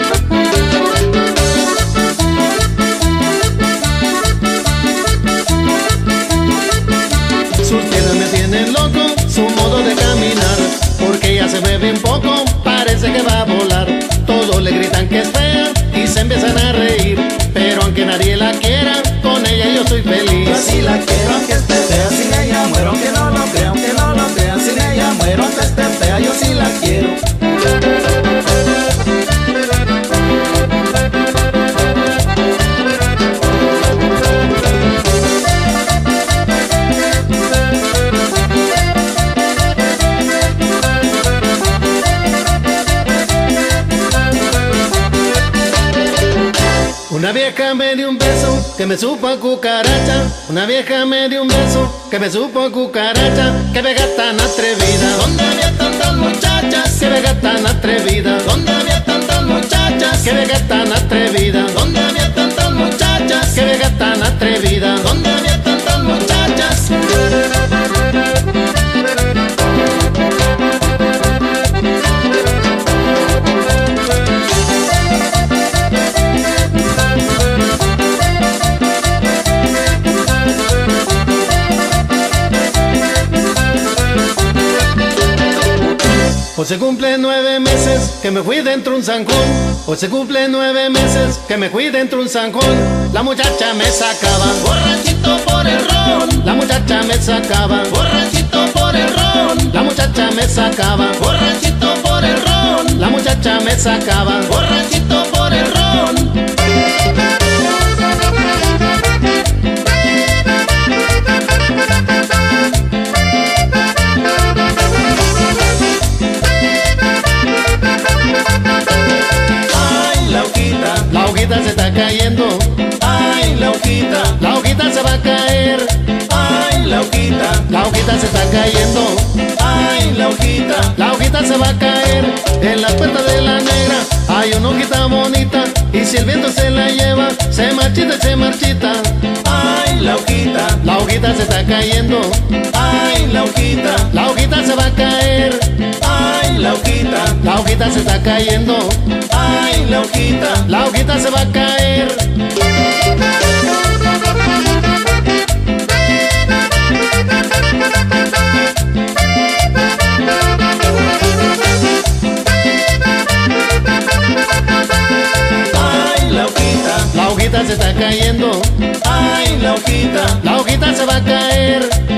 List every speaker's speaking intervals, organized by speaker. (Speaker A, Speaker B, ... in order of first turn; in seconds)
Speaker A: 7.6-20.7, 47.1-55.2, 57.0-58.5, 60.2-61.8, 63.5-65.1, 86.5-94.7, 96.4-98.0, 99.7-101.3, 103.0-104.6, 121.1-122.9, 124.4-126.0, 127.7-129.3, 131.0-139.1, 140.8-142.4, 144.1-145.7, 147.4-149.0, 150.7-152.3, 167.1-168.7, 170.4-172.0
Speaker B: 20.5-27.2, 55.2-56.9, 58.5-60.2, 61.8-63.5, 65.1-66.8, 94.7-96.4, 97.9-99.7, 101.2-103.0, 104.5-106.3, 119.9-121.0, 123.1-124.3, 126.3-127.6, 129.6-130.9, 139.5-140.8, 142.7-144.1, 146.0-147.3, 149.3-150.7, 165.8-167.1, 169.1-170.4